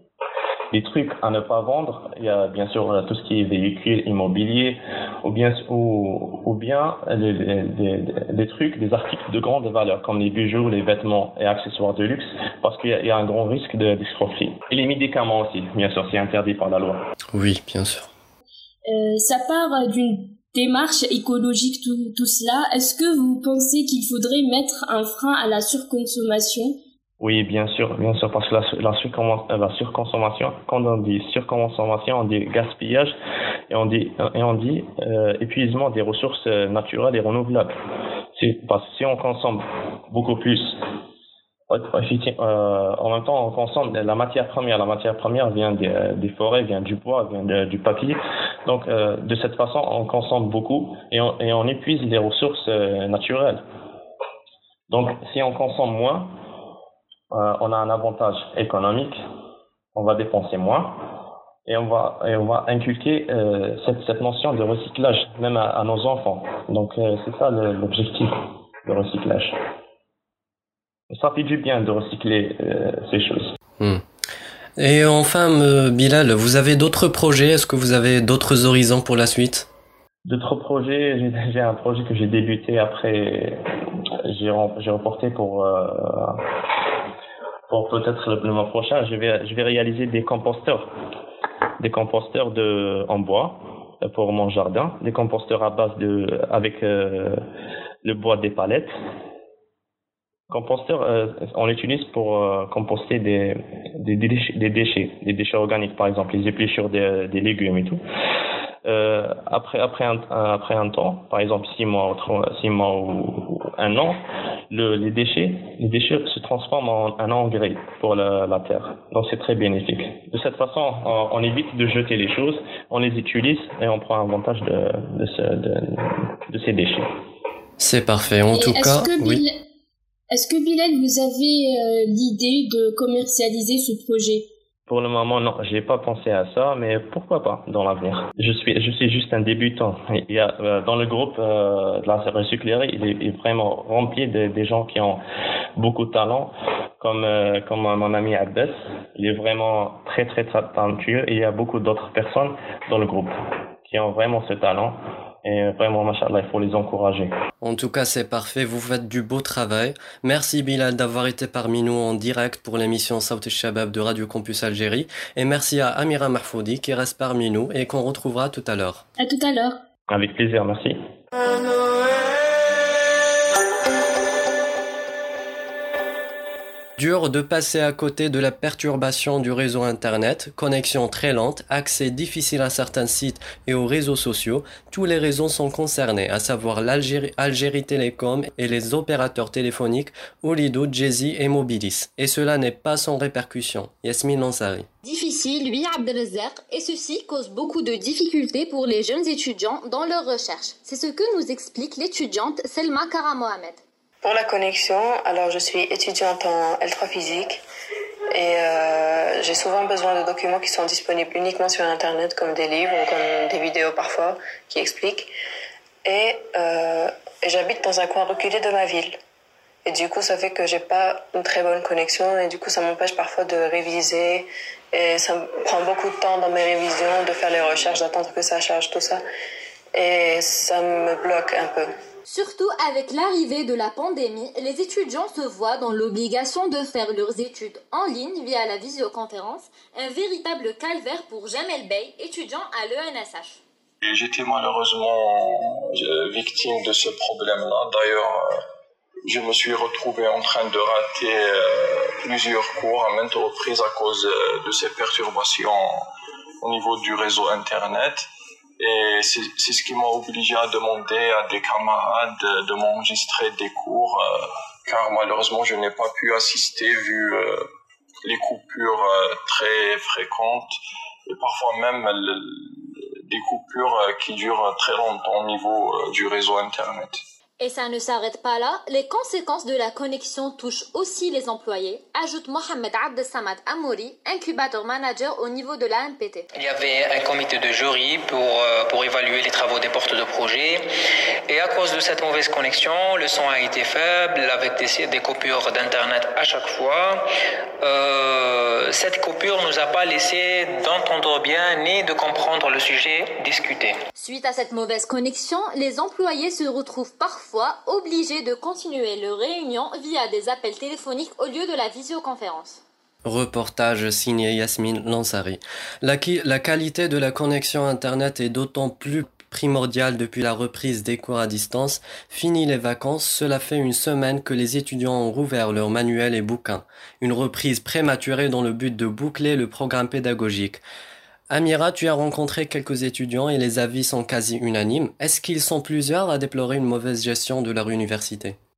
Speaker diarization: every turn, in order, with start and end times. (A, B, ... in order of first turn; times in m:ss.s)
0:00.7-0:17.0 A
0:17.3-0:18.1 B
0:18.8-0:26.8 C
0:27.2-0:33.2 A
0:33.7-0:37.7 A
0:38.4-0:40.8 A
0:41.7-0:53.6 A
0:54.9-0:56.3 A
0:57.3-0:59.2 A
0:59.9-1:01.0 A
1:01.6-1:08.3 A
1:08.8-1:09.6 A
1:11.1-1:13.5 A
1:14.8-1:19.7 B
1:20.2-1:23.6 A
1:24.3-1:26.4 A
1:27.7-1:30.9 A
1:31.8-1:37.4 A
1:38.0-1:38.9 A
1:40.5-1:48.0 A
1:48.8-1:54.2 A
1:54.7-2:07.1 A
2:07.8-2:09.4 B
2:08.5-2:09.6 C
2:10.3-2:14.5 C
2:14.9-2:25.2 A
2:25.8-2:37.3 A
2:37.6-2:49.0 B
2:49.2-2:49.8 C
2:50.1-2:51.0 A
2:57.0-3:14.9 B
3:15.0-3:23.8 D
3:24.2-3:27.6 E
3:28.3-3:35.3 E
3:36.0-3:39.2 E
3:39.8-3:49.2 E
3:49.9-3:51.9 E
3:52.2-4:03.6 D
4:04.0-4:08.6 F
4:09.2-4:16.1 F
4:16.6-4:18.3 F
4:18.8-4:27.7 F
4:28.2-4:30.7 F
4:31.3-4:37.2 F
4:37.6-4:46.5 D
4:46.5-4:50.8 G
4:51.5-4:57.2 G
4:57.8-5:04.0 G
5:04.2-5:12.8 D
5:13.2-5:30.8 B
5:31.5-5:38.6 B